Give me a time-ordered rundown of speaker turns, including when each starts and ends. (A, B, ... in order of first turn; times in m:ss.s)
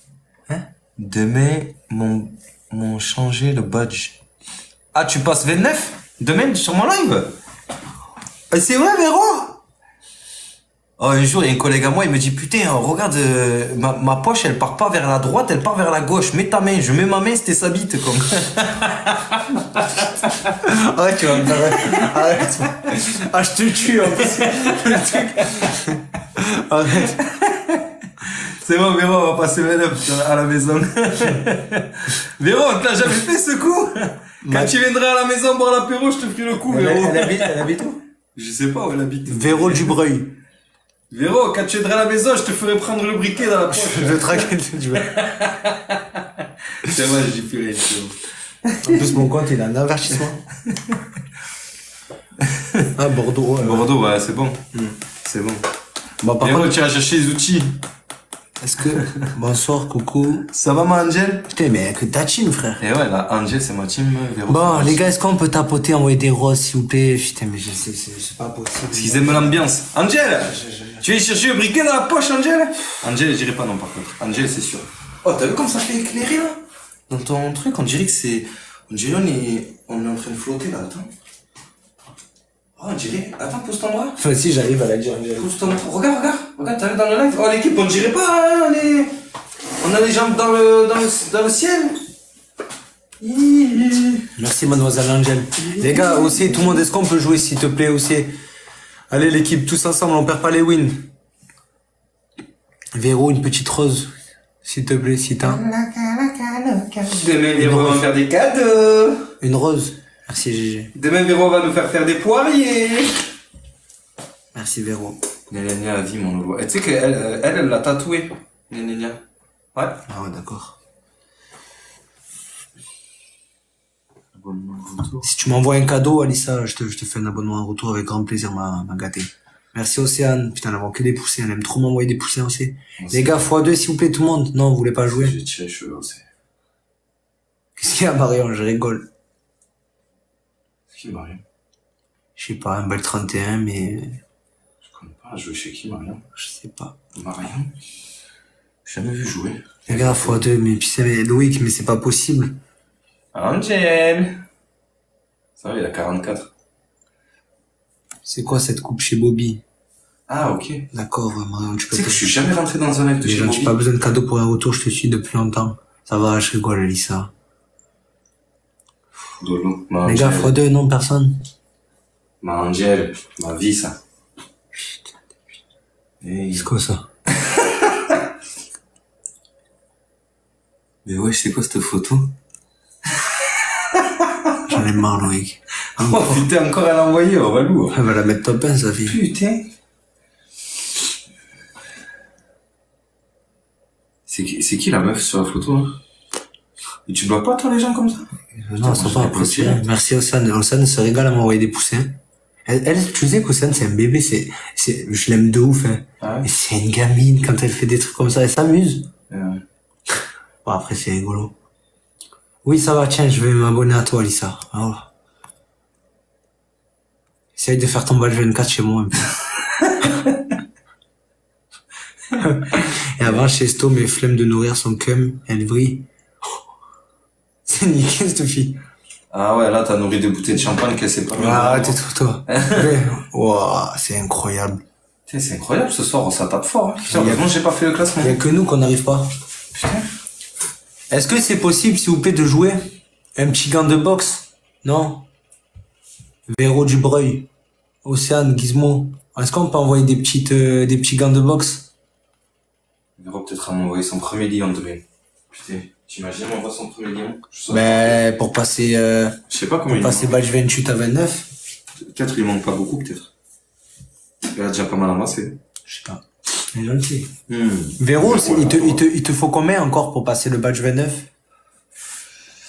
0:01.0-0:04.2 A
0:04.9-0:07.3 A
0:08.5-0:09.6 B
0:11.0-0:19.2 A
0:19.8-0:20.3 A
0:20.7-0:23.0 B
0:21.4-0:22.2 A
0:22.9-0:25.8 A
0:23.9-0:25.0 B
0:25.7-0:27.2 B
0:27.1-0:37.7 A
0:34.4-0:34.8 B
0:36.7-0:38.0 B
0:38.4-0:40.0 A
0:39.3-0:40.4 B
0:41.1-0:46.0 A
0:43.7-0:45.2 B
0:46.8-0:49.2 A
0:48.8-0:50.4 B
0:50.7-0:51.0 A
0:52.4-0:52.9 A
0:53.0-0:53.9 B
0:53.6-0:54.7 A
0:55.2-0:55.6 A
0:56.2-0:56.7 B
0:56.4-0:57.8 A
0:58.6-1:00.5 B
0:58.9-0:59.2 A
1:00.5-1:01.5 A
1:01.5-1:02.8 B
1:02.8-1:05.1 A
1:04.5-1:09.6 B
1:08.9-1:21.1 A
1:10.5-1:11.0 B
1:22.8-1:24.2 A
1:24.2-1:25.5 B
1:25.4-1:29.1 A
1:29.8-1:32.0 A
1:33.2-1:34.3 A
1:34.4-1:38.3 B
1:35.6-1:36.5 A
1:39.1-1:41.1 B
1:42.9-1:45.6 B
1:45.4-1:49.3 A
1:47.6-1:48.1 B
1:49.4-1:50.9 B
1:50.9-1:53.3 A
1:54.5-1:55.2 B
1:55.5-1:59.2 A
1:59.8-2:00.0 A
2:00.1-2:00.8 B
2:04.4-2:05.2 A
2:05.2-2:15.4 B
2:13.0-2:13.4 A
2:15.1-2:16.2 A
2:17.8-2:19.1 B
2:20.9-2:21.4 A
2:22.4-2:24.2 B
2:24.8-2:26.2 A
2:26.3-2:27.0 B
2:27.2-2:27.7 A
2:28.8-2:30.4 A
2:29.9-2:32.6 B
2:33.3-2:34.4 A
2:35.6-2:36.5 A
2:38.2-2:39.6 B
2:40.3-2:40.9 A
2:40.9-2:42.3 B
2:41.9-2:43.8 A
2:43.2-2:47.3 B
2:49.4-2:50.5 A
2:50.0-2:51.4 B
2:52.4-2:54.0 A
2:56.2-2:56.7 A
2:56.5-2:57.1 B
2:57.3-2:58.1 A
3:01.0-3:02.3 A
3:03.9-3:04.3 A
3:04.7-3:06.5 B
3:06.0-3:08.0 A
3:07.9-3:09.2 B
3:09.1-3:09.7 A
3:14.3-3:16.0 A
3:17.1-3:19.8 A
3:18.6-3:29.1 B
3:26.2-3:26.5 A
3:29.3-3:29.6 A
3:30.6-3:31.5 B
3:32.6-3:35.1 B
3:37.6-3:39.3 B
3:42.4-3:46.1 B
3:47.7-3:48.8 B
3:49.3-3:52.9 A
3:51.3-3:54.8 B
3:55.3-3:58.4 A
3:57.1-3:57.5 B
3:58.2-3:59.3 B
3:59.7-4:00.1 A
4:01.1-4:05.3 B
4:06.5-4:07.5 B
4:08.0-4:11.9 B
4:13.2-4:18.2 A
4:17.7-4:21.5 B
4:19.5-4:20.4 A
4:22.0-4:23.3 A
4:24.5-4:25.6 A
4:25.9-4:27.3 B
4:27.5-4:29.0 A
4:28.0-4:31.3 B